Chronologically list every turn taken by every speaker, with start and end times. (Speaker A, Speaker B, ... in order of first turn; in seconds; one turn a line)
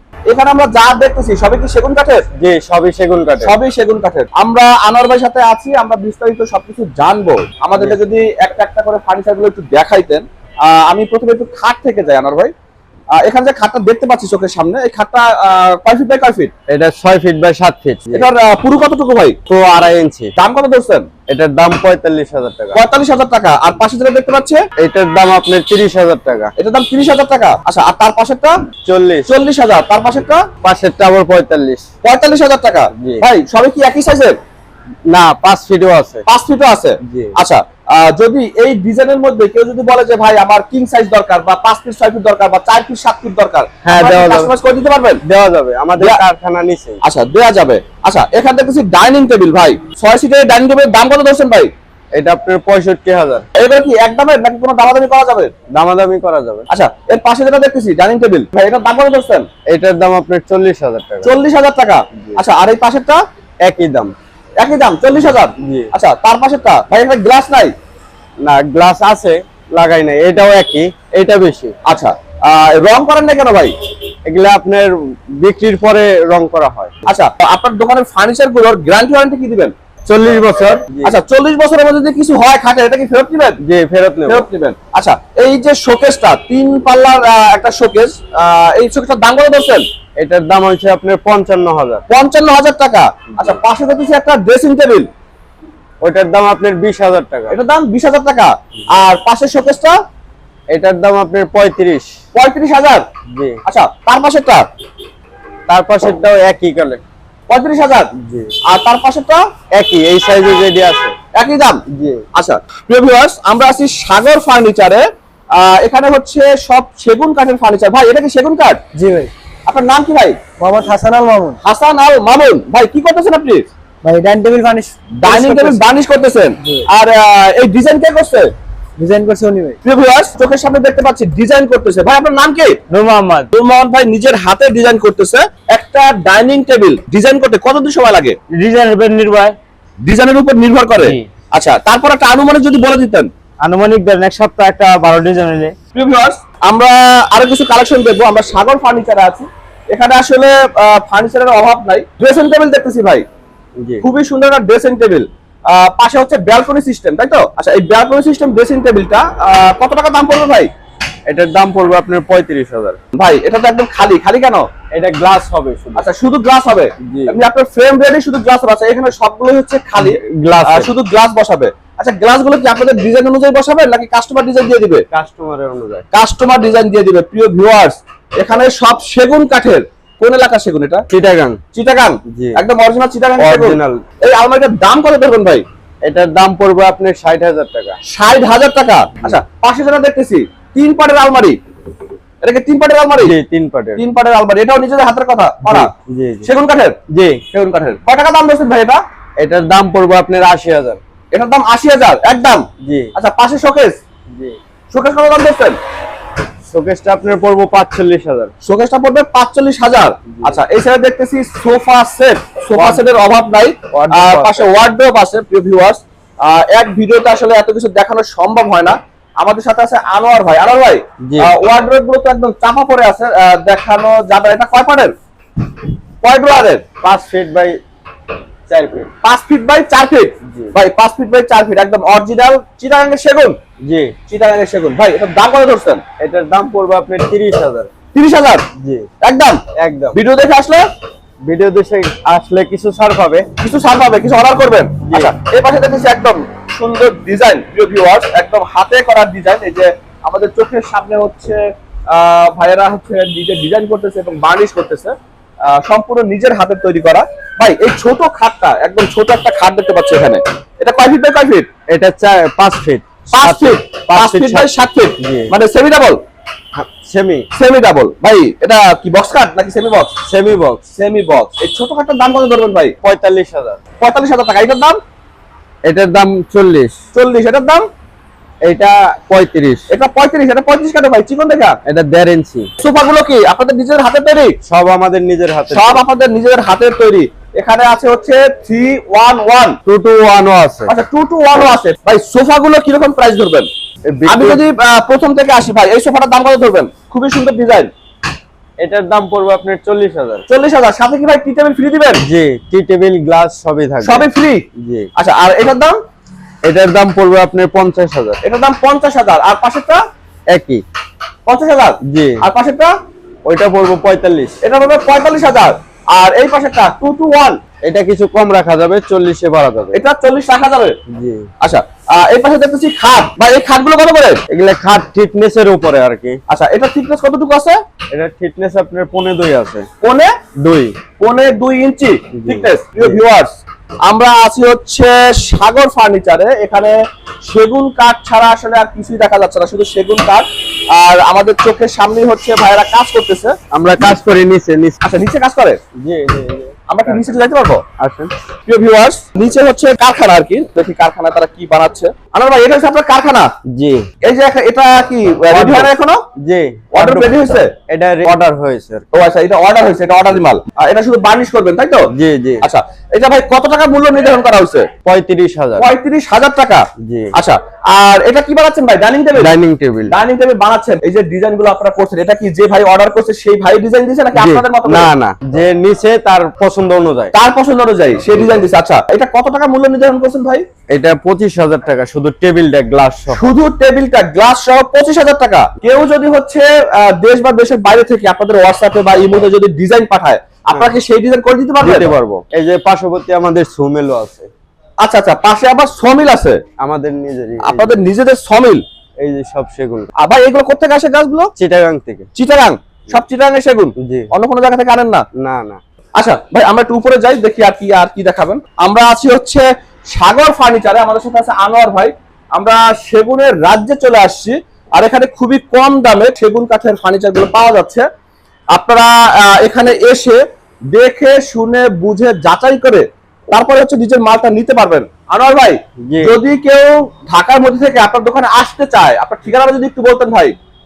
Speaker A: 0.3-2.2
Speaker B: 2.4-3.5
Speaker A: 3.4-12.5
Speaker A: 13.2-16.5
Speaker B: 16.7-18.3
Speaker A: 18.1-19.4
Speaker B: 19.5-20.3
Speaker A: 20.4-21.1
Speaker B: 21.3-22.8
Speaker A: 22.7-24.6
Speaker B: 24.8-26.5
Speaker A: 26.6-28.6
Speaker B: 28.9-29.3
Speaker A: 29.3-30.4
Speaker B: 30.6-31.8
Speaker A: 32.0-34.4
Speaker B: 33.0-33.2
Speaker B: 35.1-36.2
Speaker A: 36.3-45.2
Speaker B: 43.9-44.5
Speaker B: 45.2-47.0
Speaker A: 47.0-51.7
Speaker B: 52.1-53.5
Speaker A: 53.6-55.5
Speaker B: 55.8-56.7
Speaker A: 56.7-59.5
Speaker B: 59.7-61.3
Speaker A: 61.2-63.2
Speaker B: 63.6-64.1
Speaker A: 64.6-67.7
Speaker B: 65.6-65.9
Speaker B: 68.4-71.7
Speaker A: 71.9-73.7
Speaker B: 74.3-76.9
Speaker A: 77.1-79.7
Speaker B: 80.1-81.2
Speaker A: 81.0-83.6
Speaker B: 83.6-84.5
Speaker A: 84.3-89.8
Speaker B: 90.2-92.0
Speaker A: 92.1-95.1
Speaker B: 96.0-97.6
Speaker A: 97.5-100.0
Speaker B: 100.7-102.1
Speaker A: 102.3-103.1
Speaker B: 103.3-103.6
Speaker A: 103.7-104.7
Speaker B: 105.7-107.0
Speaker A: 107.5-108.1
Speaker B: 108.2-108.5
Speaker A: 108.7-109.4
Speaker B: 109.8-111.1
Speaker A: 111.4-111.8
Speaker B: 112.0-112.2
Speaker A: 112.3-118.8
Speaker C: 119.0-119.3
Speaker A: 119.7-120.4
Speaker C: 120.6-121.6
Speaker A: 121.6-123.7
Speaker C: 124.0-125.8
Speaker A: 125.2-128.5
Speaker C: 129.0-129.8
Speaker A: 129.8-132.8
Speaker B: 132.9-133.5
Speaker A: 133.5-138.4
Speaker B: 138.5-139.5
Speaker A: 140.1-143.3
Speaker B: 143.6-145.7
Speaker A: 145.9-153.2
Speaker A: 154.0-160.7
Speaker B: 161.3-163.0
Speaker A: 163.2-164.7
Speaker B: 164.9-166.1
Speaker A: 166.0-175.1
Speaker B: 167.1-167.4
Speaker B: 170.0-170.9
Speaker B: 175.1-176.0
Speaker A: 176.1-181.0
Speaker B: 181.1-181.6
Speaker A: 181.7-185.6
Speaker B: 182.3-182.6
Speaker B: 183.4-184.0
Speaker B: 186.1-188.0
Speaker A: 188.1-191.6
Speaker A: 192.4-193.4
Speaker B: 193.2-194.0
Speaker A: 194.0-195.9
Speaker B: 195.7-196.5
Speaker A: 196.4-197.0
Speaker B: 197.1-197.4
Speaker A: 197.5-199.0
Speaker B: 199.4-201.0
Speaker A: 201.3-202.7
Speaker B: 202.8-203.1
Speaker A: 203.2-204.0
Speaker A: 204.9-205.8
Speaker B: 206.7-208.5
Speaker A: 208.6-225.1
Speaker B: 210.4-210.6
Speaker B: 212.7-213.0
Speaker B: 213.9-214.7
Speaker B: 221.3-221.5
Speaker A: 226.2-226.8
Speaker B: 227.0-227.8
Speaker B: 228.7-229.1
Speaker A: 229.2-233.6
Speaker B: 233.9-234.1
Speaker A: 234.3-236.0
Speaker B: 236.2-237.9
Speaker A: 238.1-238.7
Speaker B: 238.8-239.1
Speaker A: 239.2-239.6
Speaker B: 239.8-240.2
Speaker A: 240.1-240.8
Speaker B: 241.5-243.5
Speaker A: 243.6-251.6
Speaker B: 245.1-245.3
Speaker A: 252.1-255.2
Speaker A: 255.7-261.7
Speaker B: 261.9-265.5
Speaker A: 263.3-266.2
Speaker B: 266.8-267.5
Speaker A: 267.6-270.1
Speaker B: 270.3-270.8
Speaker A: 271.0-272.9
Speaker B: 273.0-273.8
Speaker A: 274.0-275.0
Speaker B: 275.9-277.0
Speaker A: 277.1-277.9
Speaker B: 278.6-279.9
Speaker A: 279.9-281.8
Speaker B: 281.9-282.7
Speaker A: 282.8-284.6
Speaker B: 284.7-286.0
Speaker A: 285.7-289.8
Speaker B: 289.9-290.9
Speaker A: 290.9-293.7
Speaker B: 294.1-294.6
Speaker A: 294.3-297.9
Speaker B: 298.8-300.4
Speaker A: 300.5-302.2
Speaker B: 302.2-305.1
Speaker A: 304.0-304.6
Speaker A: 305.2-306.0
Speaker B: 306.7-308.4
Speaker A: 308.4-310.0
Speaker B: 310.5-310.8
Speaker A: 311.5-312.9
Speaker B: 312.1-312.4
Speaker B: 313.5-314.6
Speaker A: 314.6-317.6
Speaker B: 317.9-320.0
Speaker A: 319.9-321.0
Speaker B: 321.1-321.4
Speaker A: 321.6-324.4
Speaker B: 324.5-326.4
Speaker A: 326.5-327.8
Speaker B: 328.1-329.9
Speaker A: 330.0-330.3
Speaker B: 330.6-330.9
Speaker A: 331.2-333.5
Speaker B: 332.4-333.2
Speaker A: 334.1-336.9
Speaker A: 337.4-343.6
Speaker B: 343.7-345.0
Speaker A: 345.0-345.8
Speaker B: 346.0-347.3
Speaker A: 346.9-347.8
Speaker B: 348.0-348.3
Speaker A: 348.7-353.5
Speaker B: 353.7-354.1
Speaker A: 354.2-356.2
Speaker B: 355.5-359.1
Speaker A: 356.9-357.7
Speaker A: 359.1-362.1
Speaker B: 362.1-362.6
Speaker A: 362.6-364.9
Speaker B: 365.1-365.9
Speaker A: 365.8-369.5
Speaker B: 367.0-367.3
Speaker B: 369.4-370.1
Speaker A: 370.1-375.1
Speaker B: 374.4-377.3
Speaker A: 377.3-380.6
Speaker B: 380.9-383.5
Speaker A: 383.3-392.1
Speaker B: 391.8-394.5
Speaker A: 395.0-396.6
Speaker B: 396.8-398.0
Speaker A: 397.6-398.8
Speaker B: 399.2-400.1
Speaker A: 400.2-401.5
Speaker B: 401.6-402.3
Speaker A: 402.4-405.2
Speaker B: 405.4-405.8
Speaker A: 406.2-418.1
Speaker A: 418.7-420.4
Speaker A: 420.9-430.6
Speaker B: 426.1-426.3